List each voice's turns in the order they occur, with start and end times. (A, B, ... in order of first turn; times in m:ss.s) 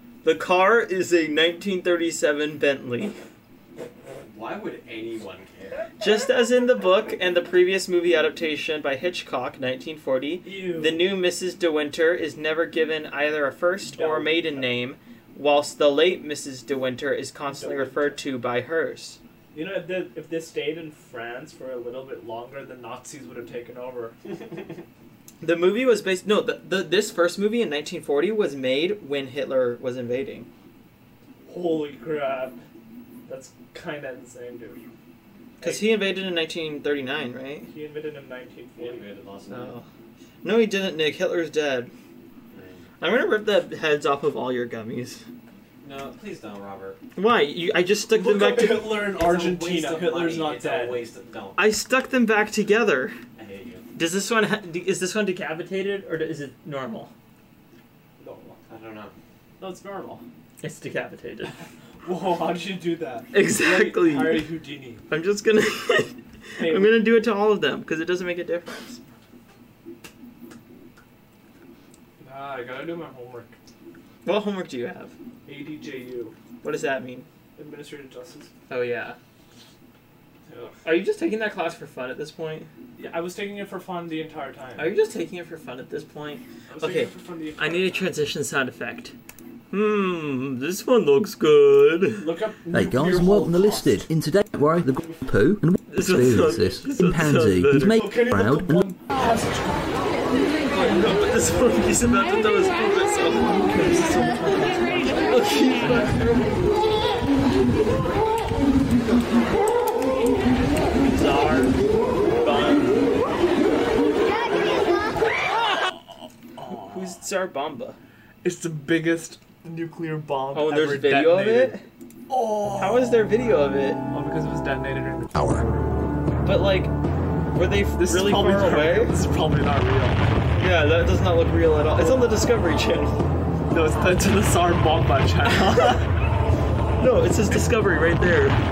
0:00.2-0:03.2 A
0:04.2-0:05.9 B
0:06.0-0:19.2 A
0:10.4-0:11.1 C
0:13.9-0:14.7 C
0:17.5-0:18.2 C
0:19.5-0:24.2 C
0:25.4-0:30.5 A
0:31.5-0:32.6 C
0:33.3-0:34.8 C
0:35.6-0:35.9 C
0:35.6-0:37.7 A
0:37.7-0:39.1 C
0:38.8-0:39.8 B
0:39.5-0:39.9 A
0:40.4-0:41.9 A
0:42.5-0:42.9 B
0:43.0-0:45.2 A
0:45.8-0:47.0 B
0:47.2-0:49.0 A
0:48.1-0:51.0 C
0:49.1-0:51.6 B
0:51.6-0:53.2 A
0:53.4-0:53.9 B
0:54.0-0:57.1 A
0:58.2-0:58.6 C
0:58.7-0:59.1 B
0:59.6-1:00.2 C
1:00.6-1:01.6 A
1:02.0-1:05.0 C
1:03.3-1:04.5 A
1:05.1-1:09.0 A
1:06.6-1:07.0 C
1:12.2-1:13.6 C
1:14.2-1:15.1 A
1:15.5-1:16.4 C
1:16.6-1:17.3 A
1:17.6-1:18.5 C
1:18.7-1:19.2 A
1:20.5-1:20.8 C
1:20.8-1:22.7 A
1:23.0-1:25.0 C
1:24.8-1:29.1 A
1:26.7-1:28.1 C
1:29.7-1:32.3 A
1:32.2-1:34.1 C
1:32.7-1:39.0 D
1:35.9-1:38.0 A
1:37.9-1:40.1 C
1:40.7-1:43.7 A
1:43.5-1:46.2 C
1:45.3-1:46.6 A
1:51.1-1:51.8 A
1:52.4-1:53.1 C
1:56.6-1:57.2 C
1:56.8-1:58.0 A
1:58.4-2:01.8 C
2:00.5-2:01.8 A
2:02.3-2:03.3 C
2:02.8-2:04.0 A
2:04.1-2:05.9 C
2:06.4-2:06.9 A
2:07.5-2:09.2 A
2:08.0-2:10.3 C
2:10.6-2:13.2 A
2:12.0-2:12.3 C
2:13.7-2:16.1 C
2:17.0-2:18.6 A